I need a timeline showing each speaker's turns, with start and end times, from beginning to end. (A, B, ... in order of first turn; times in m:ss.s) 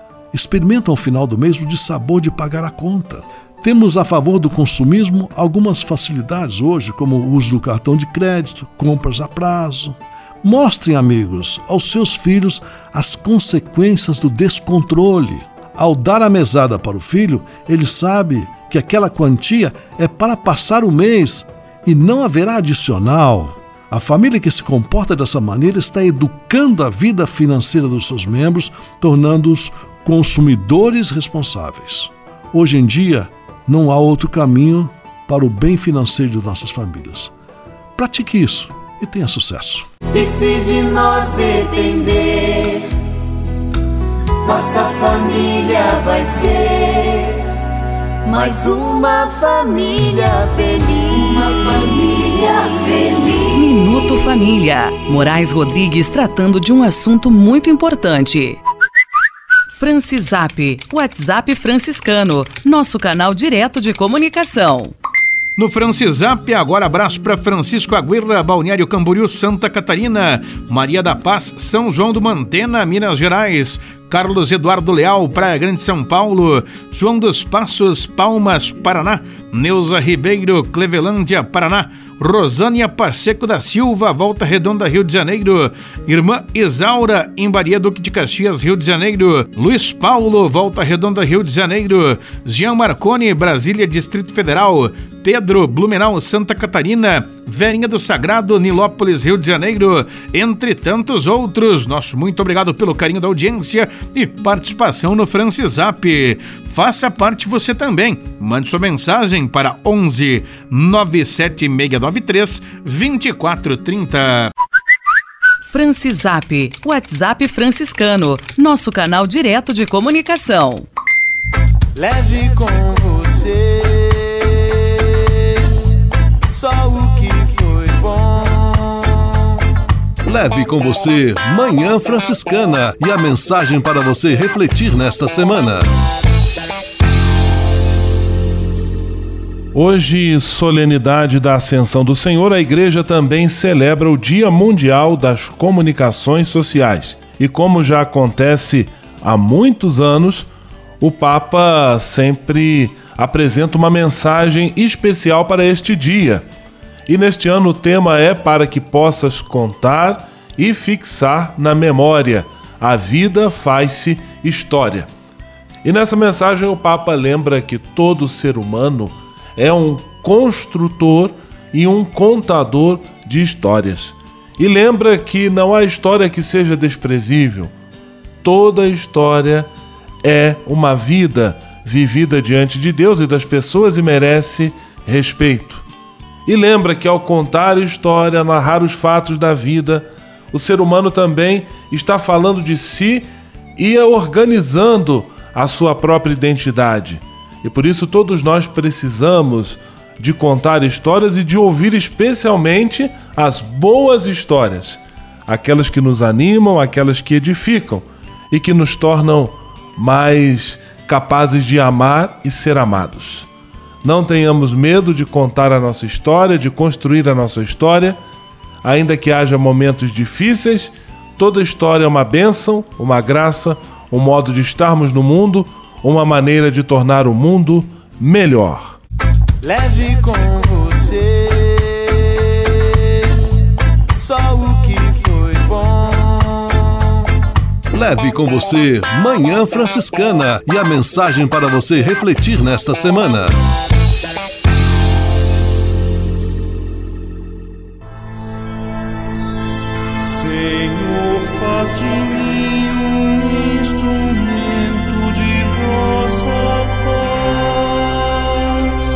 0:00.3-0:37.3 A
0:38.0-0:39.9 A
0:53.5-0:58.6 B
0:59.7-1:04.9 B
1:05.6-1:54.5 C
1:55.7-2:00.9 B
2:02.0-2:05.4 D
2:06.5-2:09.4 D
2:10.2-2:15.9 A
2:19.7-2:30.5 E
2:31.0-2:36.4 E
2:37.1-2:45.1 E
2:45.8-2:57.7 E
2:58.4-2:59.7 E
3:00.2-3:05.8 E
3:06.5-3:13.3 E
3:13.8-3:33.5 E
3:34.0-3:38.2 E
3:38.8-3:49.0 E
3:49.6-3:53.0 D
3:54.2-3:57.0 D
3:57.9-4:03.6 A
4:10.2-4:18.2 D